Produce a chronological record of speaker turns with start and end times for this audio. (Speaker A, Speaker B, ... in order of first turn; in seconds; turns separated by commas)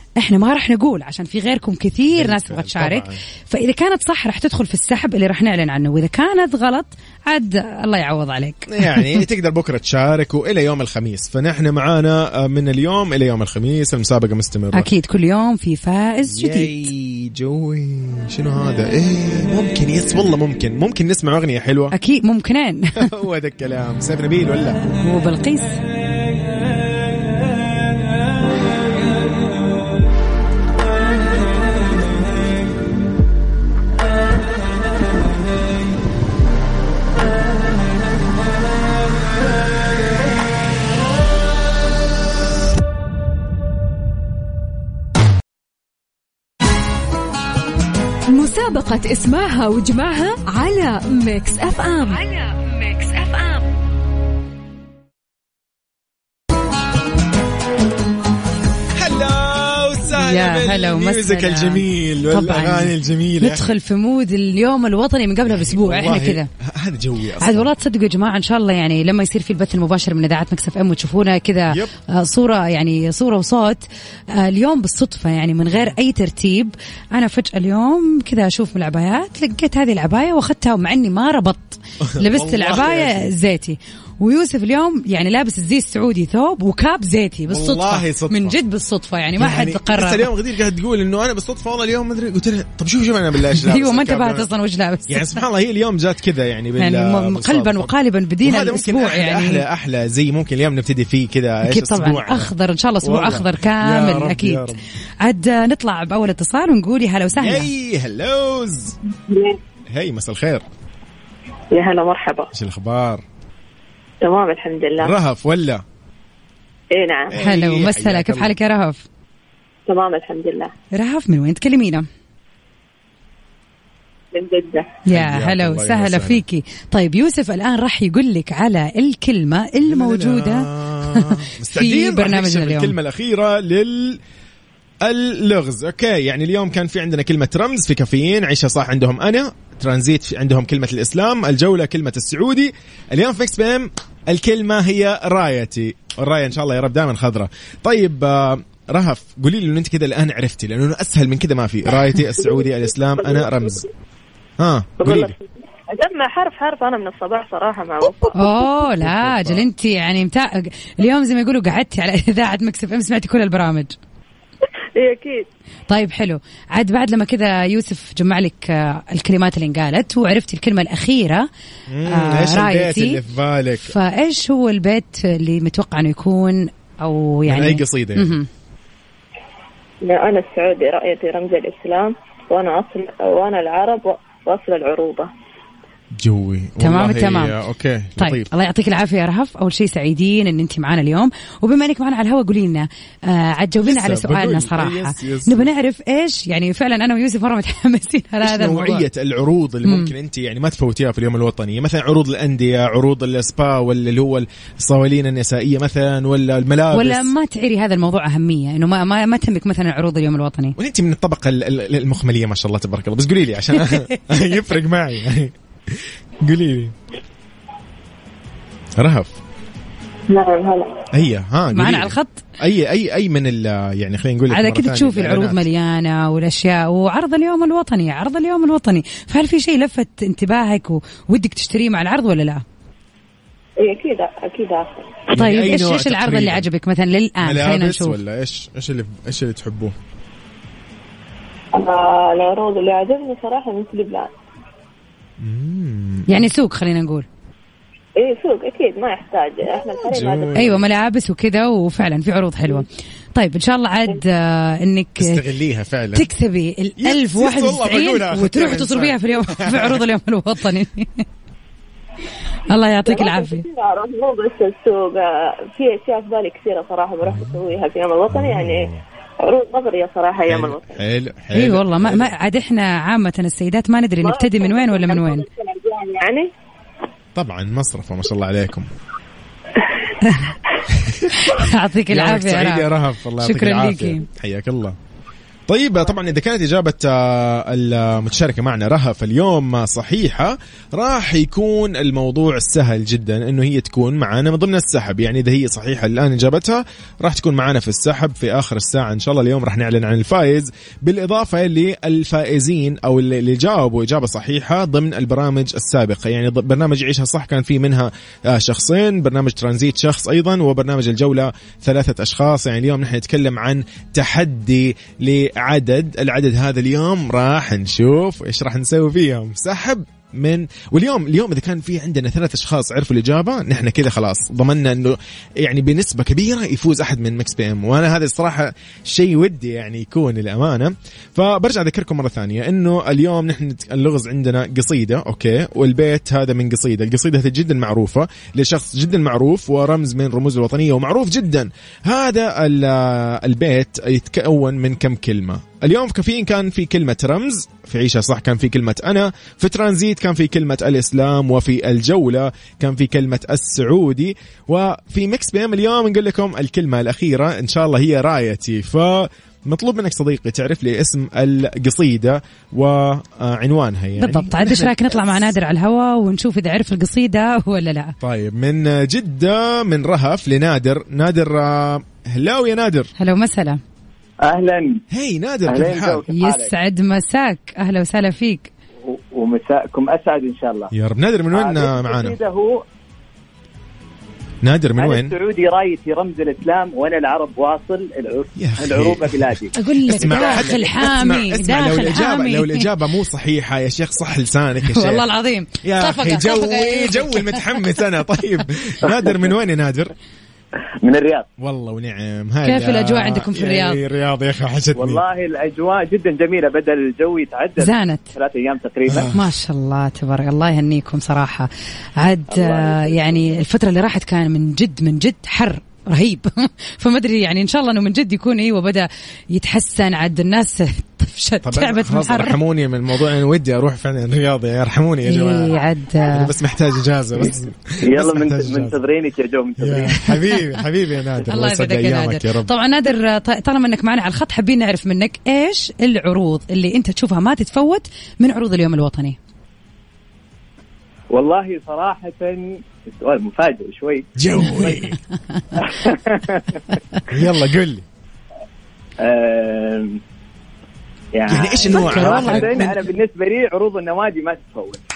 Speaker A: 0.2-9.2, Speaker B: 2.1-3.2, Speaker B: 8.7-14.9, Speaker A: 14.7-16.9, Speaker B: 16.3-21.9, Speaker A: 21.9-23.1, Speaker B: 23.0-24.8, Speaker A: 25.0-25.8, Speaker C: 48.3-53.7, Speaker B: 59.0-63.7, Speaker A: 60.1-66.5, Speaker B: 65.5-67.7, Speaker A: 67.4-90.3, Speaker B: 82.0-83.3, Speaker B: 87.5-88.6, Speaker B: 89.4-94.5, Speaker A: 93.5-95.4, Speaker B: 95.1-97.9, Speaker A: 96.8-99.6, Speaker B: 98.4-102.5, Speaker A: 101.6-107.7, Speaker B: 103.0-104.8, Speaker B: 107.4-109.0, Speaker D: 109.3-109.6, Speaker B: 109.9-110.7, Speaker D: 111.7-112.5, Speaker B: 112.5-113.2, Speaker D: 114.2-115.2, Speaker B: 115.0-115.8, Speaker D: 116.9-117.4, Speaker B: 117.3-118.5, Speaker A: 117.4-119.0, Speaker D: 119.9-120.7, Speaker A: 120.9-122.1, Speaker D: 124.3-124.9, Speaker A: 125.1-132.9, Speaker B: 125.1-126.4, Speaker B: 129.8-134.2, Speaker B: 135.0-153.9, Speaker D: 153.2-153.7, Speaker B: 154.6-155.3, Speaker D: 155.0-158.5, Speaker A: 158.4-163.9, Speaker B: 159.0-159.7, Speaker D: 165.0-165.5, Speaker A: 165.9-171.5, Speaker B: 171.9-174.0, Speaker A: 172.1-173.2, Speaker A: 173.8-178.5, Speaker B: 177.5-178.3, Speaker D: 180.0-185.3, Speaker B: 186.2-188.5, Speaker A: 186.8-187.6, Speaker A: 188.2-199.1, Speaker B: 193.8-195.7, Speaker B: 198.4-207.3, Speaker A: 199.8-200.1, Speaker A: 206.9-210.8, Speaker B: 210.8-216.9, Speaker A: 213.8-214.2, Speaker B: 219.0-219.4, Speaker D: 220.3-221.0, Speaker B: 221.1-225.7, Speaker A: 221.7-222.4, Speaker A: 224.5-232.6, Speaker D: 233.8-235.2, Speaker B: 235.3-236.7, Speaker A: 235.3-238.2, Speaker B: 237.4-239.9, Speaker D: 241.7-244.3, Speaker B: 245.4-246.5, Speaker A: 246.3-247.3, Speaker D: 248.2-250.7, Speaker B: 249.8-250.9, Speaker A: 250.6-255.4, Speaker B: 255.2-256.3, Speaker A: 256.1-261.2, Speaker B: 257.0-260.1, Speaker A: 262.7-263.6, Speaker D: 263.1-271.0, Speaker B: 267.2-267.6, Speaker B: 268.3-269.0, Speaker B: 270.5-272.3, Speaker A: 271.5-275.5, Speaker D: 274.2-276.5, Speaker B: 277.4-278.9, Speaker A: 280.2-280.5, Speaker B: 280.9-281.6, Speaker A: 281.3-284.2, Speaker B: 282.1-285.0, Speaker B: 285.7-365.5, Speaker A: 364.2-368.2, Speaker B: 368.2-373.1, Speaker A: 373.2-373.8, Speaker E: 374.4-375.0, Speaker B: 375.1-376.2, Speaker E: 375.7-376.7, Speaker A: 376.3-378.7, Speaker E: 379.1-380.9, Speaker B: 380.9-382.4, Speaker E: 381.5-382.8, Speaker B: 384.6-385.3, Speaker E: 385.0-391.0, Speaker B: 388.6-395.3, Speaker A: 389.7-392.9, Speaker A: 394.8-397.9, Speaker B: 395.8-400.1, Speaker E: 401.0-401.5, Speaker B: 401.6-405.2, Speaker A: 402.6-404.0, Speaker E: 404.9-409.3, Speaker A: 407.8-408.3, Speaker B: 409.1-409.5, Speaker A: 409.1-422.6, Speaker E: 412.5-413.6, Speaker B: 421.6-429.0, Speaker A: 425.3-426.5, Speaker E: 428.0-430.3, Speaker B: 429.8-432.7, Speaker A: 431.5-439.4, Speaker E: 441.3-444.3, Speaker B: 444.4-445.2, Speaker A: 444.8-445.9, Speaker E: 445.8-446.8, Speaker B: 447.3-448.1, Speaker E: 449.2-450.2, Speaker E: 451.3-455.0, Speaker B: 451.5-453.1, Speaker A: 451.9-452.9